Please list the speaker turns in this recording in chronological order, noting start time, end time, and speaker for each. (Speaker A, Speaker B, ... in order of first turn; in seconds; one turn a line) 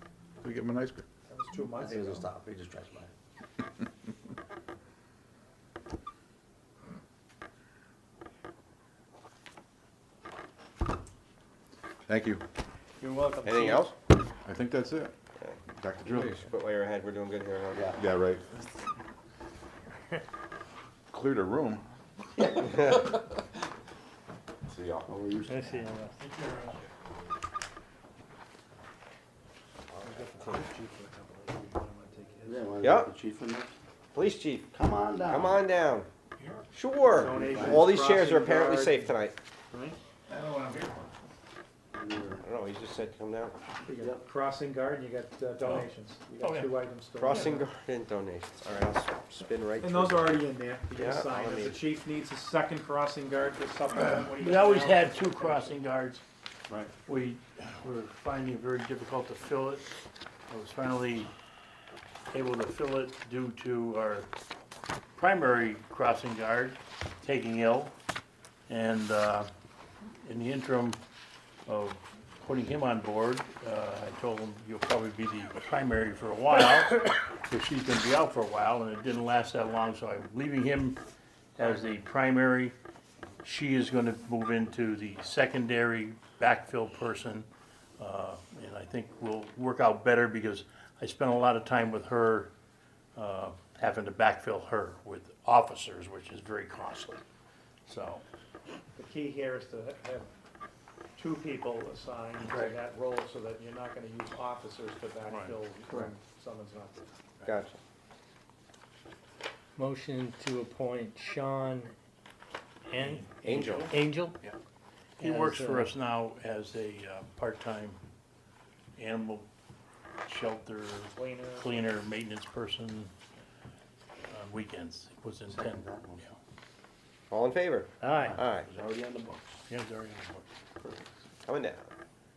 Speaker A: 0.4-1.0
Speaker B: 1.3-2.3
Speaker C: 1.8-3.1
Speaker A: 12.1-12.4
Speaker D: 13.0-13.9
Speaker E: 13.4-13.9
Speaker A: 14.4-15.1
Speaker E: 15.4-17.9
Speaker A: 15.8-16.4
Speaker C: 17.7-18.0
Speaker A: 18.0-18.9
Speaker A: 21.1-21.8
Speaker A: 22.4-23.4
Speaker E: 22.6-23.0
Speaker A: 24.7-25.1
Speaker C: 25.1-25.8
Speaker D: 25.4-26.2
Speaker F: 26.2-26.8
Speaker B: 30.0-32.6
Speaker C: 32.4-33.7
Speaker E: 32.8-33.1
Speaker E: 34.1-34.7
Speaker C: 34.7-35.6
Speaker E: 35.3-36.1
Speaker F: 36.4-36.6
Speaker E: 36.7-39.3
Speaker B: 37.0-39.1
Speaker C: 37.2-38.0
Speaker B: 39.7-40.0
Speaker F: 40.3-41.0
Speaker C: 41.9-42.4
Speaker E: 42.4-43.5
Speaker B: 43.8-47.7
Speaker F: 46.4-46.8
Speaker E: 47.2-50.4
Speaker B: 49.8-55.8
Speaker E: 51.0-51.8
Speaker F: 53.9-56.2
Speaker F: 57.0-59.9
Speaker F: 60.5-61.3
Speaker F: 62.3-64.3
Speaker F: 65.1-67.9
Speaker F: 68.7-69.5
Speaker F: 70.2-71.0
Speaker F: 71.7-81.0
Speaker F: 81.5-82.7
Speaker F: 83.4-87.5
Speaker F: 88.0-92.5
Speaker F: 93.1-97.2
Speaker F: 97.9-98.2
Speaker B: 98.9-100.3
Speaker B: 101.2-107.1
Speaker C: 102.5-102.8
Speaker F: 105.3-105.5
Speaker E: 107.4-107.8
Speaker D: 109.8-111.9
Speaker D: 112.9-114.4
Speaker E: 113.4-114.0
Speaker F: 115.2-118.0
Speaker D: 115.2-115.9
Speaker F: 119.0-119.5
Speaker F: 120.2-123.1
Speaker B: 121.1-121.9
Speaker F: 124.3-126.3
Speaker C: 125.5-126.2
Speaker E: 127.3-128.7
Speaker D: 128.0-128.3
Speaker C: 128.2-129.6
Speaker F: 129.7-130.5
Speaker C: 130.8-131.1
Speaker E: 131.4-131.9